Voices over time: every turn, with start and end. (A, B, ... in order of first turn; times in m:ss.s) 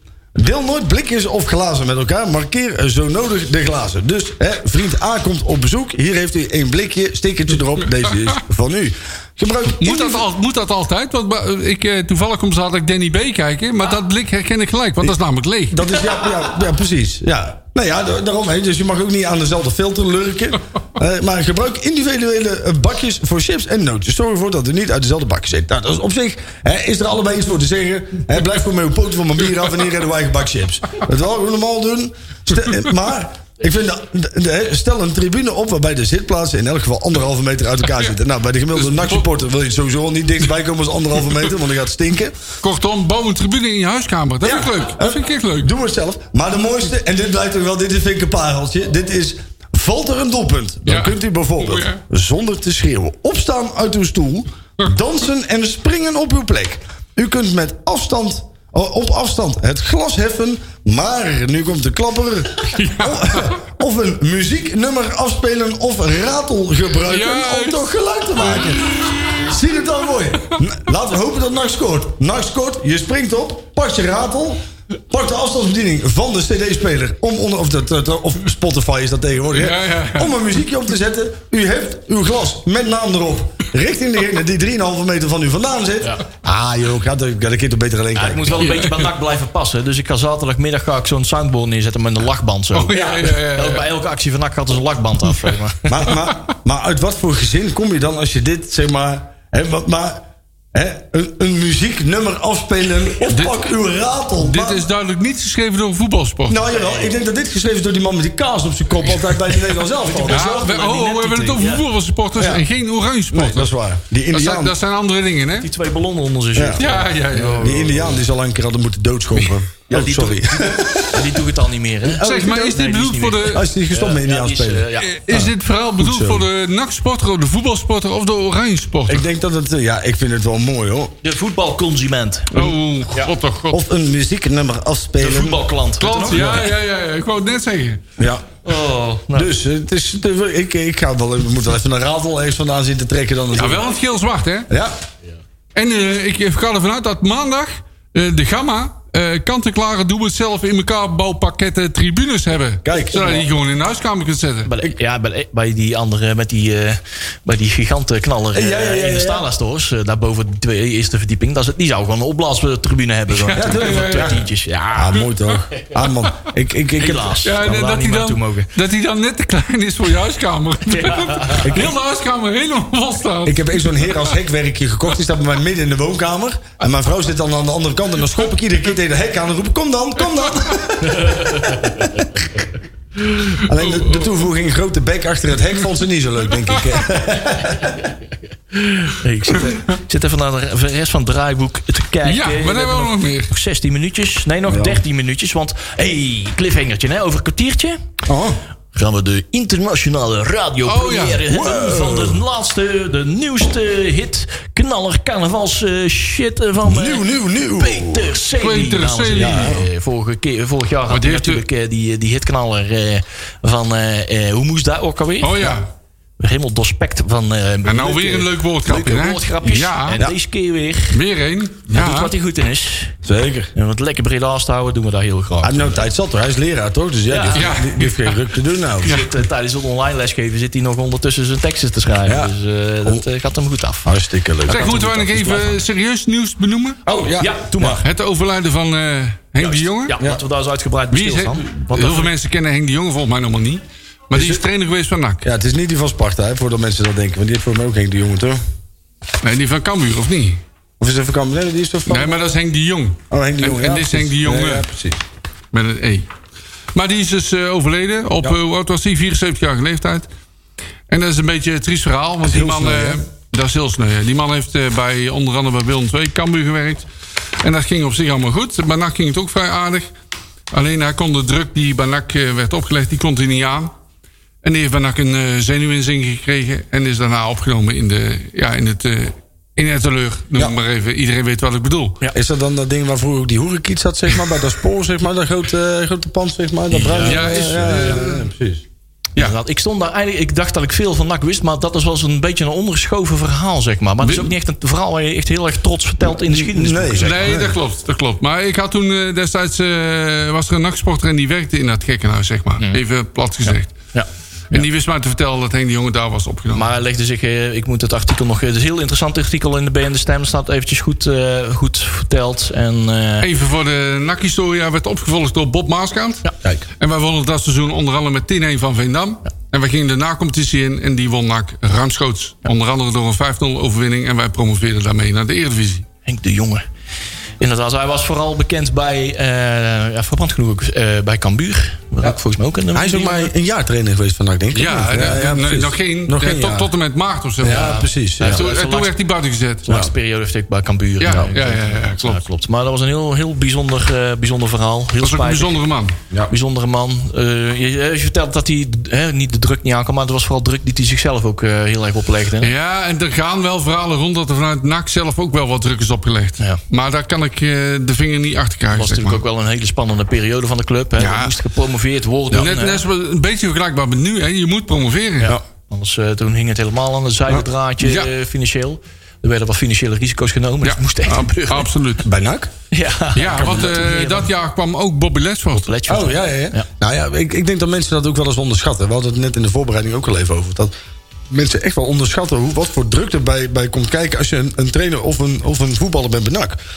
0:00.3-0:10.2 A
0:09.8-0:15.9 B
0:15.7-0:42.4 A
0:38.8-0:39.2 B
0:42.6-0:45.7 B
0:44.4-1:14.6 A
0:50.8-0:52.0 B
1:02.7-1:03.6 B
1:07.1-1:07.9 B
1:08.5-1:09.1 B
1:15.1-1:28.7 A
1:19.5-1:20.4 B
1:28.1-1:36.1 C
1:28.6-1:29.1 B
1:32.7-1:33.8 B
1:35.9-1:44.9 A
1:43.3-1:43.6 B
1:44.4-1:46.6 B
1:46.5-1:50.6 A
1:46.7-1:47.1 C
1:49.1-1:49.4 B
1:50.0-1:51.8 C
1:50.3-1:53.7 B
1:52.4-1:52.6 A
1:53.3-1:54.7 A
1:54.3-1:55.7 B
1:55.6-1:58.2 C
1:56.6-1:56.8 A
1:56.8-1:57.8 B
1:57.6-2:01.2 A
1:59.9-2:05.4 C
2:02.1-2:02.8 A
2:02.1-2:03.6 B
2:03.4-2:05.5 A
2:05.0-2:09.2 B
2:06.0-2:06.4 A
2:09.1-2:11.1 A
2:11.2-2:12.6 C
2:12.5-2:13.8 B
2:13.7-2:15.6 A
2:15.2-2:16.6 C
2:16.0-2:18.0 B
2:16.3-2:16.6 A
2:18.2-2:18.4 A
2:18.6-2:19.5 C
2:19.3-2:23.8 A
2:23.5-2:24.7 B
2:24.7-2:24.9 A
2:25.7-2:34.7 B
2:32.8-2:33.5 A
2:34.6-2:45.2 C
2:38.5-2:39.4 A
2:43.3-2:44.4 B
2:43.6-2:47.4 A
2:47.0-2:48.7 C
2:47.4-2:54.4 B
2:50.9-2:51.7 C
2:51.6-2:51.9 A
2:53.4-3:02.5 A
3:01.0-3:02.0 C
3:03.6-3:07.9 A
3:03.7-3:04.3 B
3:06.7-3:07.0 B
3:08.7-3:18.0 C
3:12.2-3:13.5 B
3:14.7-3:15.0 A
3:18.3-3:18.6 A
3:18.9-3:35.8 C
3:20.8-3:21.4 B
3:21.4-3:22.4 A
3:26.8-3:28.3 A
3:28.6-3:29.7 B
3:29.4-3:29.8 A
3:31.1-3:31.6 B
3:35.4-3:35.9 B
3:36.4-3:41.2 C
3:37.8-3:40.2 B
3:41.1-3:42.3 B
3:41.9-3:43.2 C
3:43.2-3:43.7 A
3:43.7-3:46.0 C
3:45.6-3:49.1 A
3:47.3-3:47.6 C
3:47.5-3:48.4 B
3:49.0-3:54.1 C
3:52.2-3:52.5 A
3:54.0-3:55.7 A
3:54.7-3:55.7 C
3:54.7-3:57.0 B
3:57.0-3:58.0 A
3:57.1-3:58.0 C
3:58.0-4:00.2 B
3:59.6-4:02.3 C
4:01.1-4:05.4 B
4:04.3-4:04.6 A
4:05.4-4:08.6 A
4:09.4-4:10.6 B
4:11.0-4:12.4 A
4:12.0-4:14.9 B
4:13.3-4:15.2 A
4:15.7-4:16.3 B
4:16.9-4:20.3 B
4:21.1-4:27.0 B
4:22.4-4:23.2 A
4:27.6-4:30.1 B
4:30.7-4:33.9 B
4:34.6-4:42.2 B
4:42.3-4:48.8 A
4:46.9-4:48.2 C
4:47.2-4:48.5 B
4:49.4-4:57.6 C
4:54.2-4:54.5 B
4:56.3-4:57.8 A
4:57.2-5:04.0 B
5:03.6-5:04.8 C
5:04.7-5:06.8 B
5:06.7-5:13.5 C
5:13.4-5:16.5 B
5:17.0-5:26.0 B
5:26.2-5:26.8 C
5:27.6-5:33.5 C
5:32.9-5:36.9 A
5:34.7-5:39.9 B
5:37.6-5:38.6 A
5:37.6-5:39.1 C
5:39.8-5:45.8 C
5:41.2-5:42.4 B
5:45.2-5:46.2 B
5:46.5-5:52.7 C
5:52.6-5:59.4 B
5:58.9-6:03.0 C
6:01.2-6:01.5 B
6:02.5-6:05.5 B
6:05.4-6:11.9 C
6:08.0-6:08.3 B
6:10.8-6:12.3 B
6:12.2-6:12.7 A
6:12.9-6:14.5 C
6:13.3-6:15.9 B
6:13.5-6:13.9 A
6:15.7-6:16.8 C
6:16.1-6:20.9 A
6:21.5-6:26.8 A